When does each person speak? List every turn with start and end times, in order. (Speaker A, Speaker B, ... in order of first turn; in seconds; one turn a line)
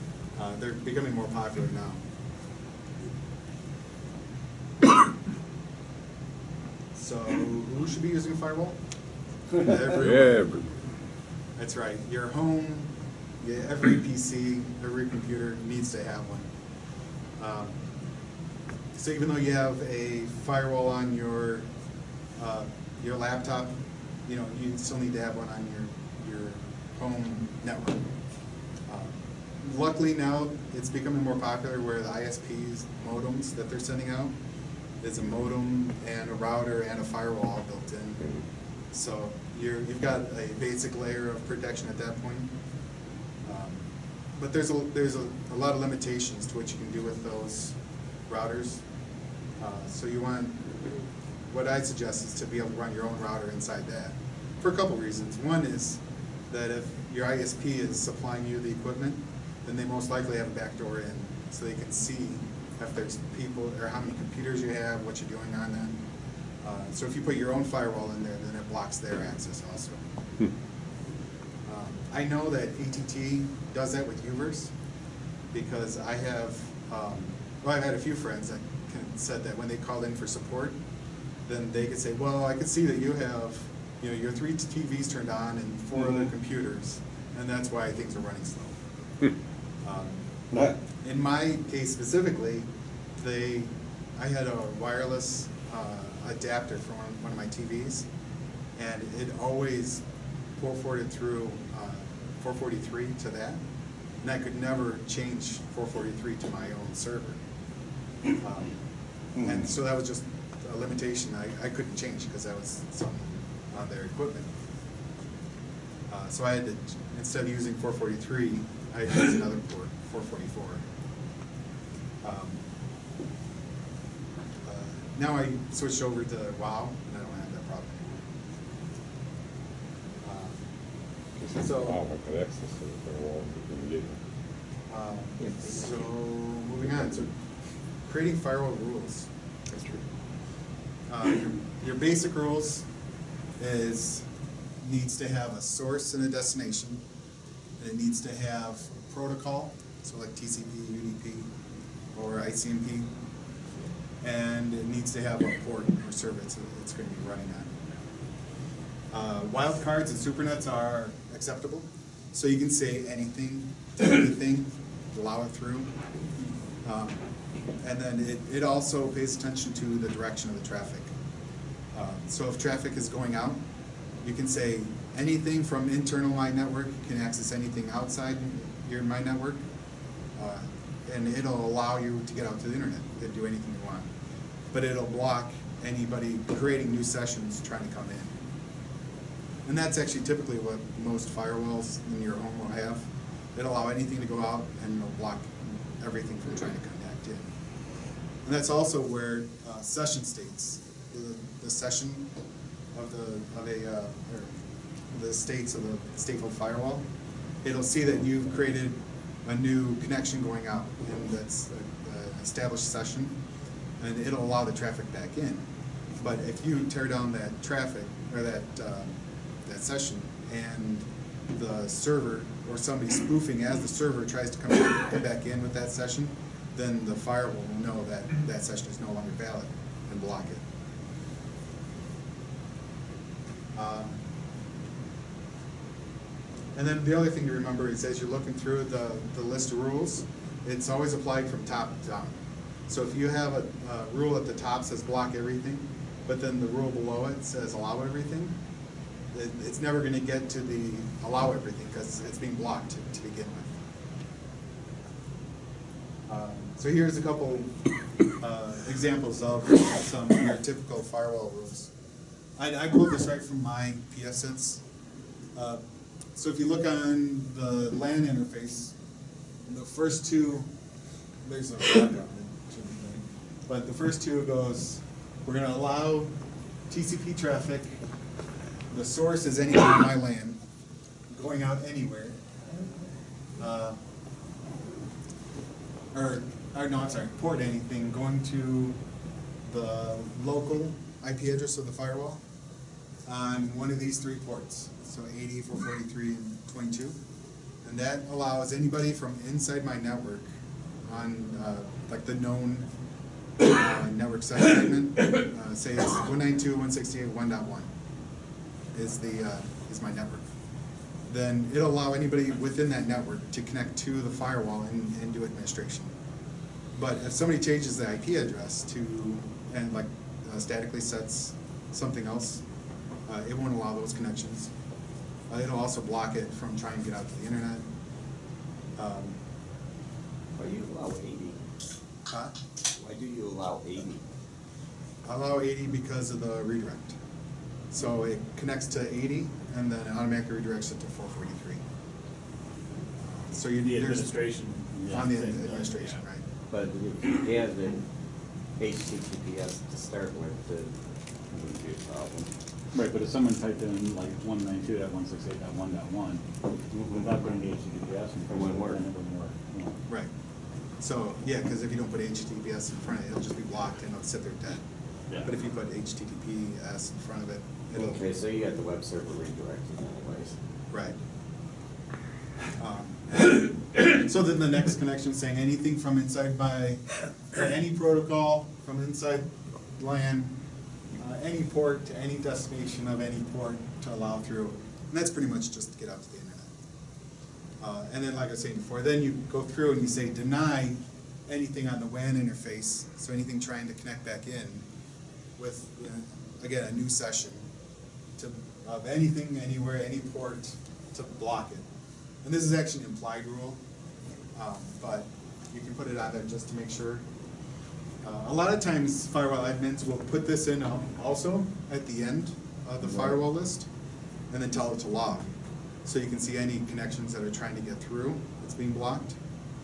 Speaker A: 0.3-2.0
Speaker A: 6.9-8.8
Speaker A: 9.6-10.4
Speaker B: 9.8-10.7
Speaker A: 11.6-16.5
Speaker A: 17.4-17.8
Speaker A: 18.9-21.7
Speaker A: 22.4-28.1
Speaker A: 28.9-34.4
Speaker A: 35.0-38.2
Speaker A: 38.9-42.5
Speaker A: 43.4-48.8
Speaker A: 49.6-50.7
Speaker A: 51.5-66.0
Speaker A: 66.6-70.0
Speaker A: 71.7-74.7
Speaker A: 75.5-80.8
Speaker A: 81.5-88.8
Speaker A: 89.8-90.3
Speaker C: 90.5-90.8
Speaker A: 91.0-98.1
Speaker A: 98.8-100.0
Speaker A: 100.6-103.6
Speaker A: 104.2-107.4
Speaker A: 108.4-108.8
Speaker A: 109.4-114.5
Speaker A: 116.1-120.8
Speaker A: 122.2-122.7
Speaker A: 124.6-128.3
Speaker A: 130.2-130.7
Speaker B: 131.4-134.2
Speaker A: 131.6-132.0
Speaker A: 134.9-137.3
Speaker A: 138.0-140.0
Speaker A: 141.1-142.9
Speaker A: 143.6-144.3
Speaker A: 144.8-147.0
Speaker A: 147.8-151.5
Speaker A: 152.1-153.2
Speaker A: 154.2-157.8
Speaker A: 159.1-165.9
Speaker A: 166.8-167.2
Speaker A: 167.8-171.1
Speaker A: 171.9-173.6
Speaker A: 174.2-179.6
Speaker A: 180.4-184.1
Speaker A: 184.7-188.4
Speaker A: 189.7-197.5
Speaker A: 198.4-202.3
Speaker A: 202.9-204.6
Speaker A: 205.1-207.1
Speaker A: 207.6-213.4
Speaker A: 214.0-215.7
Speaker A: 216.2-230.7
Speaker A: 233.7-234.2
Speaker A: 236.7-248.6
Speaker A: 249.3-253.9
Speaker A: 256.3-257.8
Speaker A: 258.4-261.9
Speaker A: 262.6-264.8
Speaker A: 265.6-265.8
Speaker A: 266.4-268.9
Speaker A: 269.7-270.7
Speaker A: 271.4-276.4
Speaker A: 276.9-278.0
Speaker A: 278.9-280.6
Speaker A: 281.3-282.4
Speaker A: 283.6-284.0
Speaker A: 286.1-289.0
Speaker A: 289.6-292.4
Speaker A: 293.3-297.2
Speaker A: 297.8-300.5
Speaker A: 301.0-302.9
Speaker A: 303.6-307.9
Speaker A: 308.9-310.5
Speaker A: 311.3-316.2
Speaker A: 316.9-322.6
Speaker A: 323.2-324.7
Speaker A: 325.5-327.9
Speaker A: 329.0-329.4
Speaker C: 330.6-331.6
Speaker A: 332.3-332.6
Speaker C: 332.9-334.2
Speaker A: 335.2-337.2
Speaker A: 337.9-341.8
Speaker A: 343.2-344.4
Speaker D: 343.8-346.2
Speaker A: 345.1-346.4
Speaker C: 346.7-348.0
Speaker C: 348.8-350.9
Speaker C: 351.5-352.5
Speaker E: 352.9-356.4
Speaker C: 356.9-357.4
Speaker E: 357.2-360.0
Speaker C: 358.5-359.0
Speaker A: 361.0-364.8
Speaker A: 365.4-368.2
Speaker C: 367.9-370.6
Speaker A: 370.9-371.2
Speaker A: 372.8-380.6
Speaker A: 381.2-386.7
Speaker A: 387.8-394.9
Speaker A: 395.6-397.7
Speaker A: 398.4-401.9
Speaker A: 402.4-403.8
Speaker A: 404.6-407.2
Speaker A: 408.2-413.9
Speaker A: 414.5-419.4